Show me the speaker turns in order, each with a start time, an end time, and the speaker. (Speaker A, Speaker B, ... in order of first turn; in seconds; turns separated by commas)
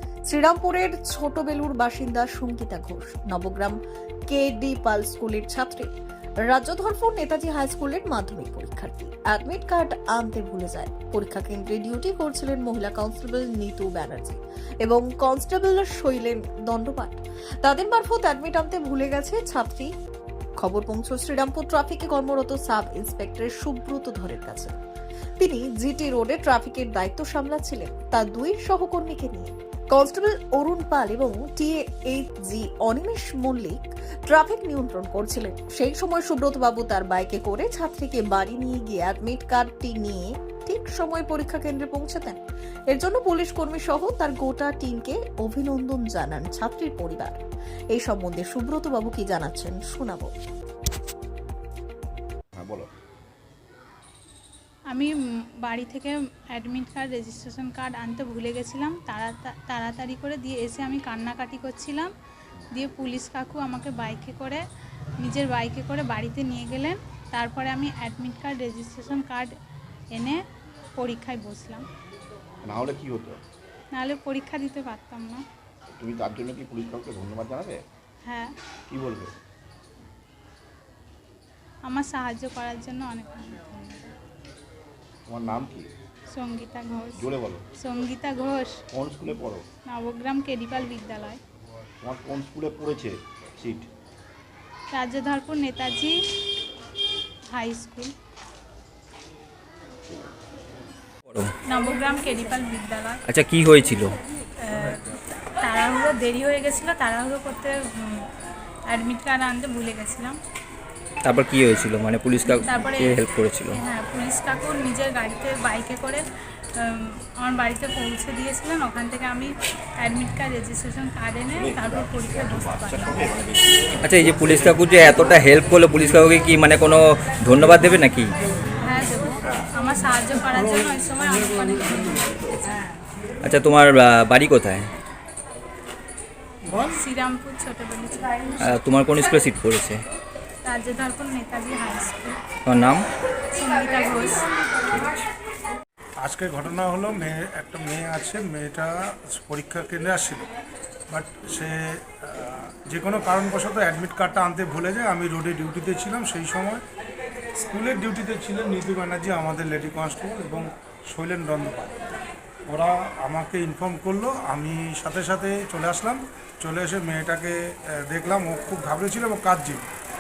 Speaker A: 0.3-3.8, Speaker A: 4.3-5.9, Speaker A: 6.5-19.9, Speaker A: 20.6-24.8, Speaker A: 25.4-42.4, Speaker A: 42.9-47.4, Speaker A: 47.9-50.3, Speaker B: 52.5-52.9, Speaker C: 55.6-62.1, Speaker C: 62.7-64.6, Speaker C: 65.2-69.5, Speaker C: 70.1-70.4, Speaker C: 71.0-71.9, Speaker B: 72.6-73.4, Speaker C: 73.9-75.4, Speaker B: 76.0-77.8, Speaker C: 78.3-78.5, Speaker B: 78.9-79.3, Speaker C: 81.9-84.1, Speaker B: 85.3-85.9, Speaker C: 86.3-87.3, Speaker B: 87.2-87.6, Speaker C: 87.8-88.8, Speaker B: 88.9-89.7, Speaker C: 89.9-91.4, Speaker B: 92.0-93.9, Speaker C: 94.9-96.2, Speaker C: 97.5-98.1, Speaker C: 101.7-103.2, Speaker D: 103.3-104.2, Speaker C: 104.6-108.3, Speaker C: 108.9-110.4, Speaker D: 111.2-113.8, Speaker C: 112.5-116.2, Speaker C: 116.8-123.4, Speaker B: 121.6-124.4, Speaker D: 124.0-128.3, Speaker C: 128.8-132.8, Speaker D: 133.4-134.9, Speaker C: 136.7-138.7, Speaker D: 138.6-140.0, Speaker C: 140.7-142.4, Speaker D: 142.7-143.1, Speaker C: 143.5-144.5, Speaker E: 146.2-150.5, Speaker E: 151.1-156.8, Speaker E: 157.6-162.0, Speaker E: 162.7-169.9